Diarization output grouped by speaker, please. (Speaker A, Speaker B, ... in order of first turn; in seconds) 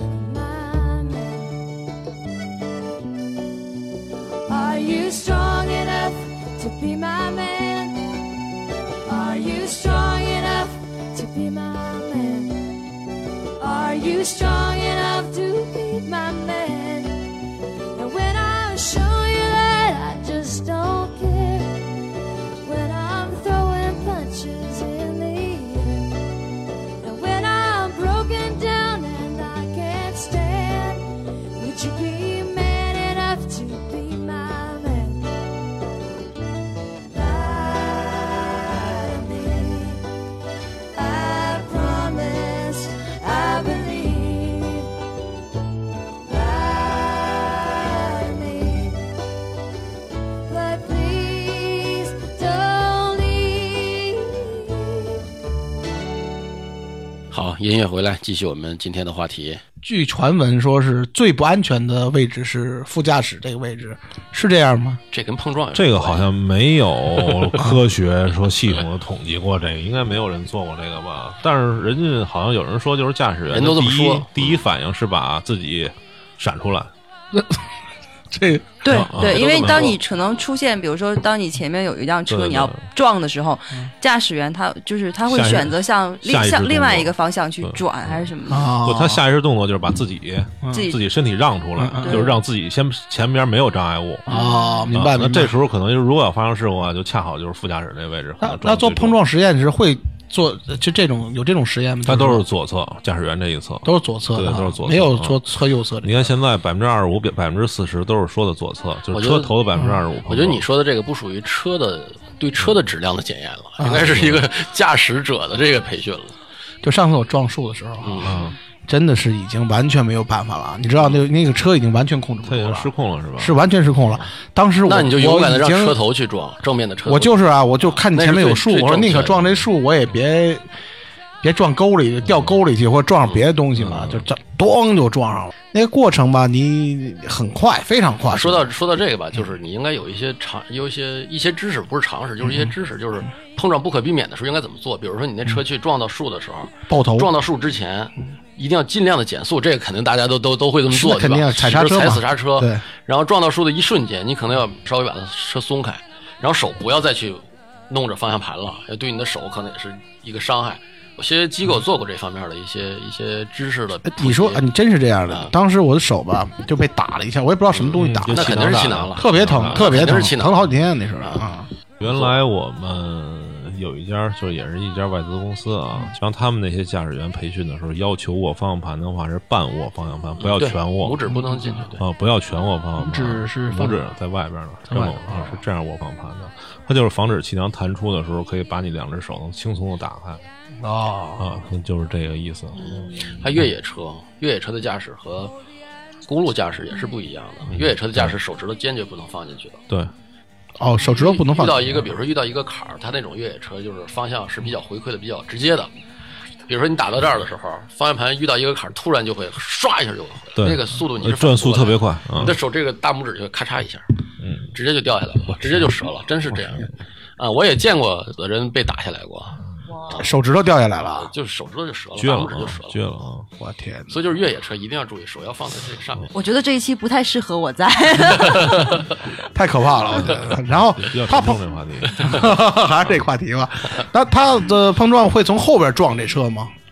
Speaker A: 0.1-1.6, 4.5-8.2, 9.1-12.7, 13.6-17.3, 17.9-21.9, 22.6-26.2, 27.0-35.3, 37.1-40.1, 40.9-44.9, 46.2-49.1, 50.4-55.2
Speaker B: 57.3-59.6, 65.1-66.3, 73.5-74.6, 79.2-80.0, 109.1-109.7, 110.2-116.4, 118.0-118.5, 124.8-129.7, 133.3-134.3, 138.3-164.6, 167.7-170.7, 172.0-172.4, 180.4-182.0, 192.8-195.5, 196.3-199.8, 201.0-205.9, 206.7-214.1, 214.7-220.4, 221.1-223.0, 224.1-226.3
Speaker C: 59.8-65.0, 77.3-77.6, 78.3-79.1, 88.5-89.2, 90.6-90.9, 91.8-92.3, 94.3-95.6, 98.4-102.5, 103.8-106.3, 113.8-114.3, 116.8-126.0, 127.1-130.7, 131.4-138.7, 142.4-142.7, 146.9-147.3, 150.9-152.8, 164.1-171.7, 181.3-181.8, 183.0-184.0, 184.9-185.6, 190.8-191.5, 200.8-202.1, 220.2-221.3, 223.6-224.2, 229.5-231.6, 232.2-236.7
Speaker D: 65.8-76.9, 78.9-80.0, 82.3-82.9, 85.3-94.3, 94.9-99.2, 102.1-105.4, 106.0-110.6, 114.1-114.4, 118.2-118.6, 122.5-123.6, 132.3-132.5, 168.0-170.2, 172.0-181.3, 182.0-190.4, 191.4-192.9, 197.7-198.3, 210.6-212.6, 214.4-214.7, 222.2-223.5, 230.1-232.6
Speaker E: 78.8-88.7, 92.0-92.4, 94.3-94.9, 226.3-229.1